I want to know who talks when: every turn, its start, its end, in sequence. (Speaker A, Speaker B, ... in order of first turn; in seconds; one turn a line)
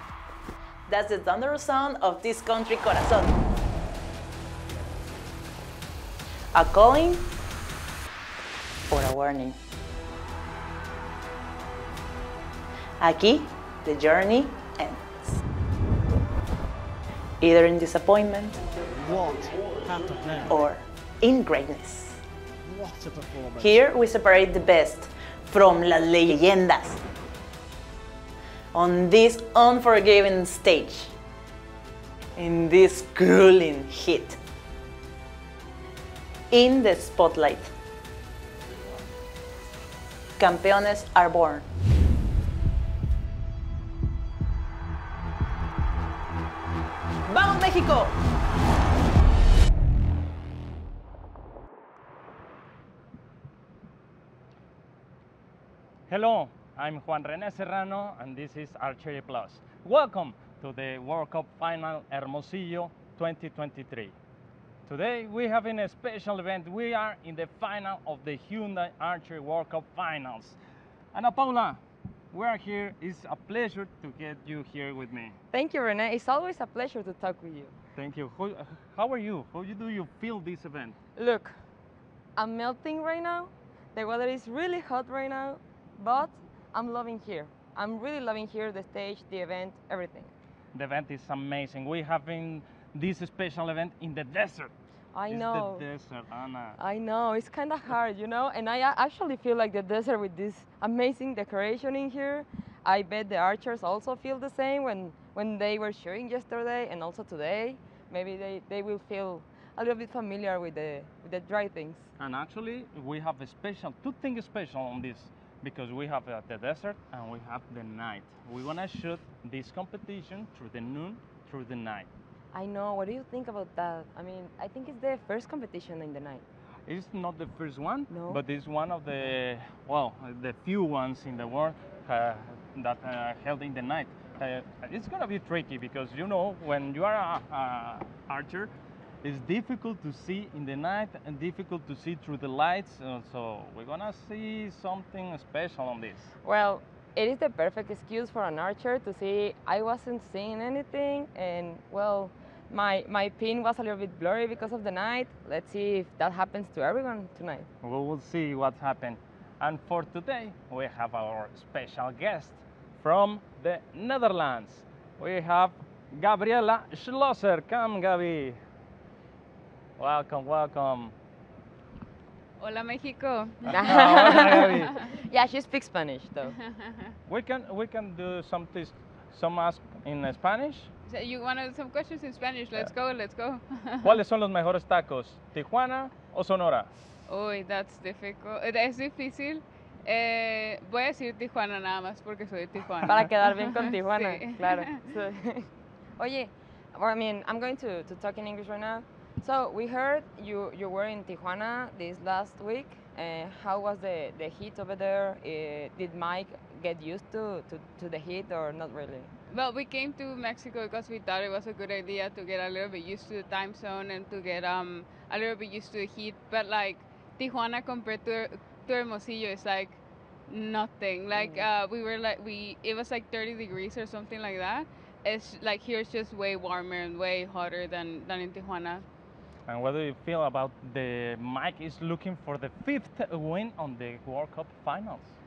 Speaker A: 0.9-3.4
Speaker A: 6.5-7.3
Speaker A: 8.9-9.6
Speaker A: 13.0-15.4
Speaker A: 17.4-18.6
Speaker B: 19.0-20.5
Speaker A: 20.5-22.2
Speaker B: 22.7-23.8
Speaker A: 23.6-27.0
Speaker A: 28.7-31.1
Speaker A: 32.4-34.4
Speaker A: 36.5-37.7
Speaker A: 40.4-41.7
Speaker A: 47.3-48.1
Speaker C: 56.1-64.1
Speaker C: 64.9-70.6
Speaker C: 71.1-71.8
Speaker C: 72.3-75.3
Speaker D: 75.5-77.7
Speaker C: 78.0-81.0
Speaker D: 81.2-81.6
Speaker D: 82.3-90.3
Speaker C: 90.7-94.7
Speaker D: 95.1-95.8
Speaker C: 95.3-96.8
Speaker D: 96.8-112.0
Speaker C: 112.2-122.1
Speaker D: 122.5-126.4
Speaker C: 126.8-138.7
Speaker D: 128.1-128.4
Speaker C: 139.2-146.3
Speaker D: 146.4-157.7
Speaker C: 157.8-168.6
Speaker C: 170.0-171.1
Speaker E: 172.6-174.8
Speaker C: 173.7-174.9
Speaker D: 173.7-176.6
Speaker E: 176.7-177.1
Speaker C: 177.3-180.9
Speaker E: 181.1-184.2
Speaker C: 184.0-186.9
Speaker E: 187.3-194.9
Speaker D: 193.1-209.3
Speaker E: 209.5-229.0
Speaker D: 221.3-221.7
Speaker C: 229.7-235.3